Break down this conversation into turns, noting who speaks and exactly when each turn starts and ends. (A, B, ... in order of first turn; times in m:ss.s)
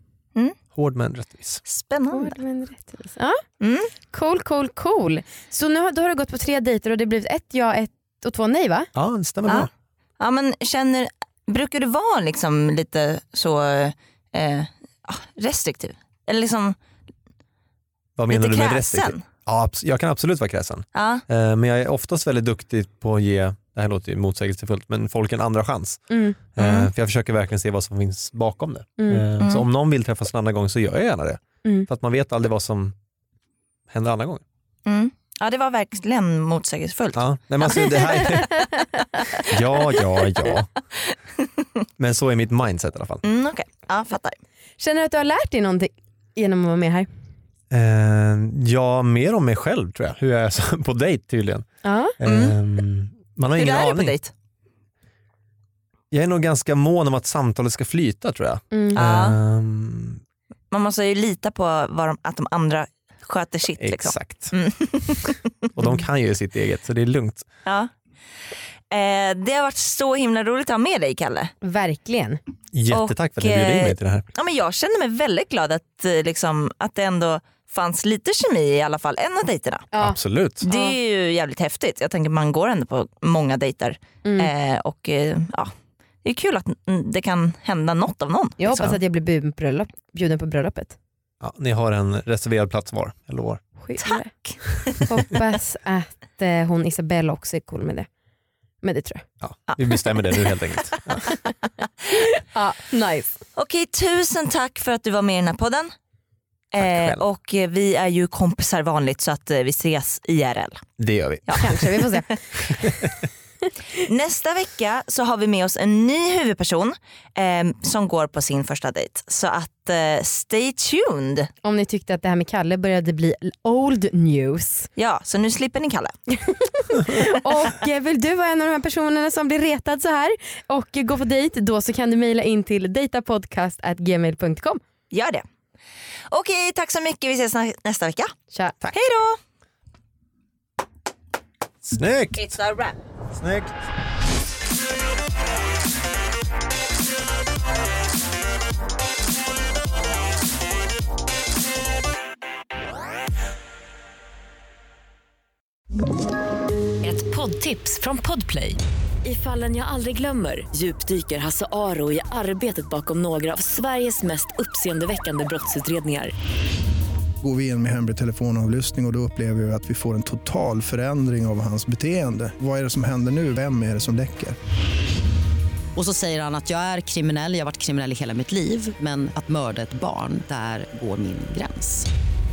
0:00.7-0:01.6 A
0:01.7-0:02.4 B
0:02.1-0:03.4 C
0:03.6-0:03.9 B
0:04.1-0:08.9 C
0:09.0-0:09.7 A
0:09.5-0:16.8 B
0:18.2-0:26.0 A
0:18.3-0:19.3 B
0:21.0-0:21.2 B
0:26.1-0:26.4 C
0:26.6-0:33.0 A
0:26.6-0:26.9 B
0:29.0-0:29.3 C
0:29.4-0:29.6 B
0:33.9-0:34.4 A
0:34.9-0:38.2 B
0:37.2-0:38.6 A
0:38.5-0:39.4 C
0:39.4-0:40.7 A
0:42.0-0:43.2 A
0:43.2-0:44.4 B
0:44.8-0:47.1 C
0:47.7-0:51.7 A
0:51.8-0:52.2 C
0:52.2-0:54.2 A
0:52.2-0:52.6 B
0:53.6-0:54.3 B
0:56.1-1:00.2 A
0:58.7-0:59.0 C
0:59.0-0:59.4 B
1:00.7-1:05.7 B
1:03.8-1:04.6 A
1:05.8-1:07.5 A
1:08.9-1:11.5 B
1:11.6-1:12.4 C
1:12.7-1:14.3 A
1:12.9-1:19.9 B
1:19.9-1:21.0 C
1:20.0-1:20.6 A
1:20.6-1:25.7 B
1:24.2-1:24.5 C
1:26.2-1:29.0 B
1:28.6-1:31.0 C
1:31.4-1:33.6 A
1:33.8-1:38.1 C
1:34.0-1:34.5 B
1:38.8-1:39.3 C
1:39.4-1:41.3 A
1:39.7-1:40.0 B
1:42.2-1:43.4 C
1:43.6-1:45.9 B
1:46.7-1:50.8 B
1:46.8-1:47.2 A
1:51.0-1:51.9 A
1:51.5-1:52.9 C
1:54.0-2:01.5 B
2:01.6-2:04.9 C
2:05.0-2:06.2 B
2:06.4-2:14.8 C
2:15.1-2:15.4 B
2:16.3-2:18.3 B
2:18.9-2:19.4 B
2:21.9-2:22.5 A
2:22.4-2:23.0 B
2:23.3-2:23.8 A
2:37.0-2:46.3 D
2:47.4-2:54.6 E
2:56.0-3:02.1 F